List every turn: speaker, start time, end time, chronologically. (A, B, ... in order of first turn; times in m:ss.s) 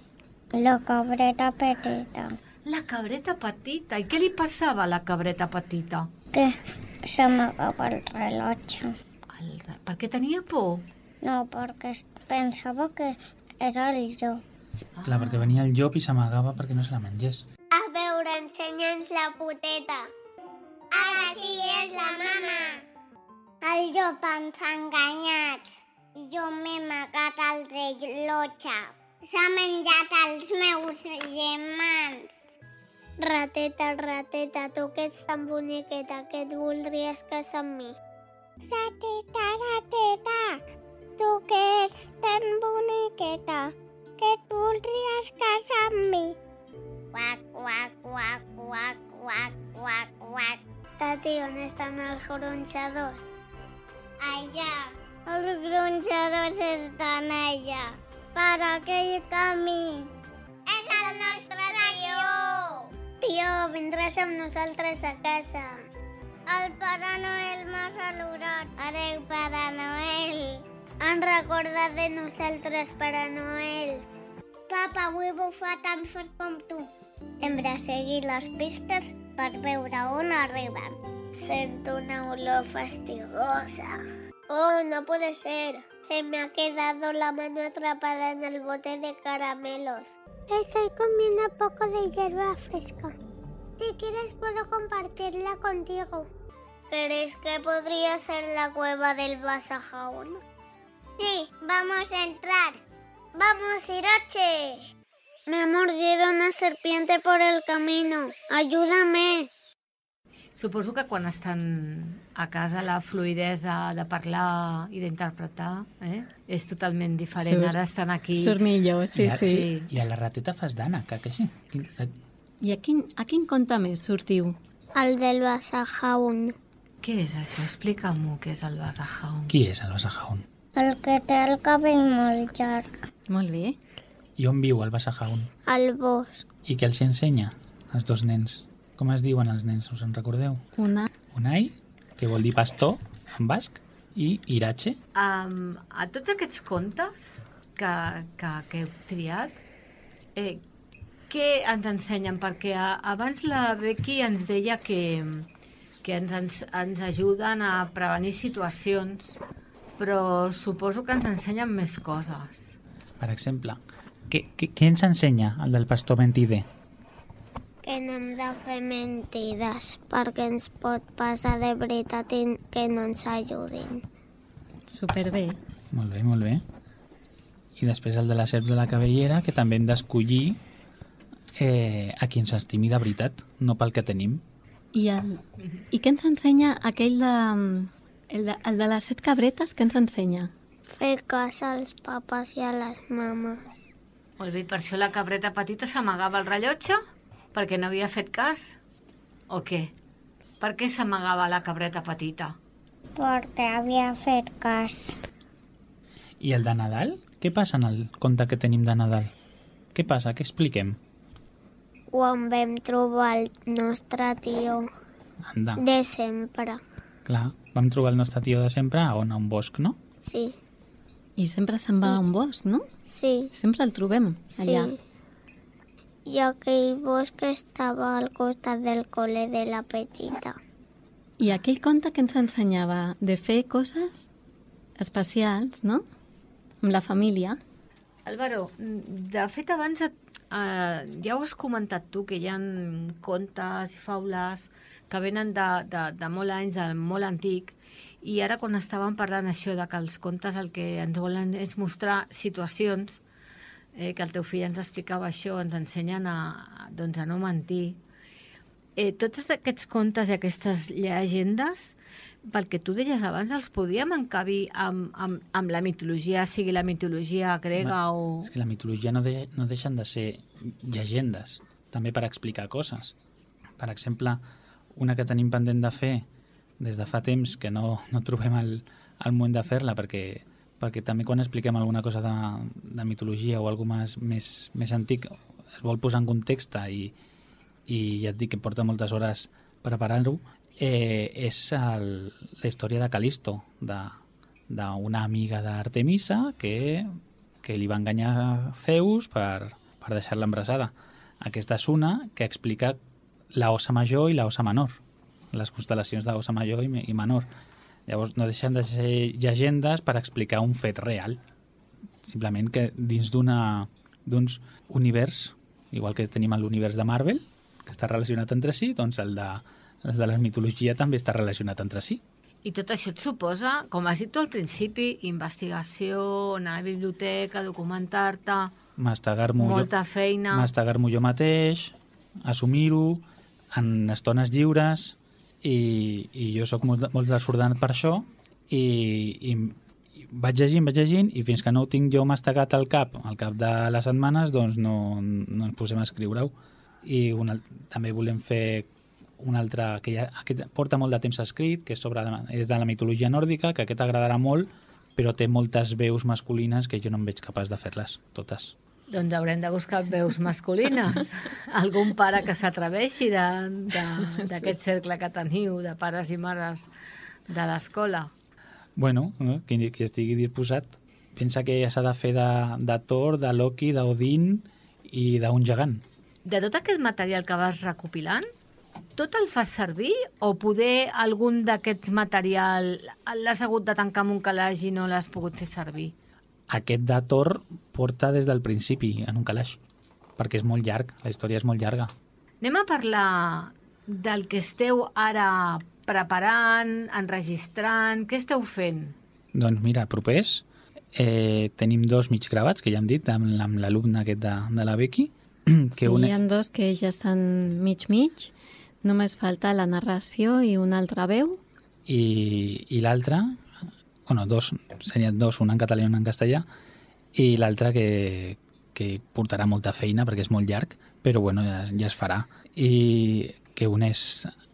0:00.5-0:02.4 A
0:02.6-0:06.1 B
0:06.3-0:08.9 A
0:09.3-0:10.8 B
0:11.2-0:14.4 A
0:14.9-0:15.6 B
0:15.0-0:17.4 C
0:17.7-0:20.1 A
0:20.9-0:22.8 A
0:23.6-0:32.3 A
0:33.2-0:38.0 A
0:38.6-0:40.6 A
0:41.2-0:46.4 A
0:47.1-0:53.2 A
0:54.2-1:00.1 A
1:00.7-1:05.8 A
1:06.5-1:14.0 A
1:14.7-1:33.1 A
1:33.8-1:36.3 A
1:36.9-1:40.4 A
1:41.2-1:42.8 A
1:43.3-1:44.8 A
1:45.5-1:49.5 A
1:50.5-1:58.6 B
1:57.4-1:57.7 D
1:58.3-1:59.7 D
1:59.1-2:02.1 C
1:59.3-1:59.9 B
2:02.6-2:04.6 D
2:04.9-2:06.6 A
2:07.0-2:09.5 B
2:09.5-2:10.4 C
2:10.8-2:12.9 A
2:13.3-2:13.8 D
2:14.4-2:15.5 C
2:15.6-2:16.4 A
2:16.6-2:20.6 C
2:20.8-2:21.1 D
2:21.3-2:25.0 C
2:25.1-2:29.6 B
2:30.3-2:30.6 B
2:31.3-2:35.5 B
2:36.0-2:39.4 B
2:40.0-2:42.8 B
2:43.2-2:46.6 C
2:47.8-2:54.0 A
2:54.9-2:55.6 D
2:55.9-2:56.6 C
2:57.8-3:00.6 C
3:01.6-3:04.4 C
3:04.9-3:05.4 D
3:05.9-3:10.5 D
3:10.9-3:13.9 A
3:14.4-3:17.0 B
3:17.5-3:18.8 B
3:19.5-3:19.9 B
3:20.6-3:22.6 B
3:23.2-3:25.2 A
3:26.4-3:29.3 C
3:29.9-3:31.0 C
3:32.1-3:34.9 A
3:35.4-3:35.8 C
3:35.8-3:36.8 A
3:37.2-3:40.0 C
3:40.2-3:40.6 A
3:41.4-3:42.8 D
3:43.1-3:43.5 A
3:43.5-3:44.9 D
3:44.6-3:45.0 A
3:46.2-3:50.6 A
3:51.4-3:54.3 D
3:55.0-3:56.0 D
3:56.8-3:57.6 D
3:58.2-4:13.2 B
4:13.9-4:18.0 B
4:19.0-4:28.5 B
4:27.8-4:33.1 C
4:33.8-4:34.4 C
4:34.9-4:36.2 C
4:36.8-4:47.1 C
4:47.9-5:03.0 C
5:03.5-5:05.0 C
5:05.5-5:07.5 C
5:08.1-5:11.4 C
5:12.2-5:22.2 C
5:22.6-5:28.7 B
5:29.0-5:29.9 C
5:29.6-5:30.7 B
5:30.5-5:58.7 C
5:59.1-6:06.9 B
6:04.4-6:04.7 D
6:07.5-6:08.3 B
6:09.0-6:16.0 C
6:16.4-6:18.4 B
6:19.2-6:26.1 B
6:26.7-6:29.8 C
6:30.4-6:32.1 C
6:32.6-6:39.2 B
6:39.5-6:46.4 C
6:46.0-6:51.6 D
6:52.0-6:53.6 C
6:54.2-6:56.6 C
6:57.3-7:04.5 C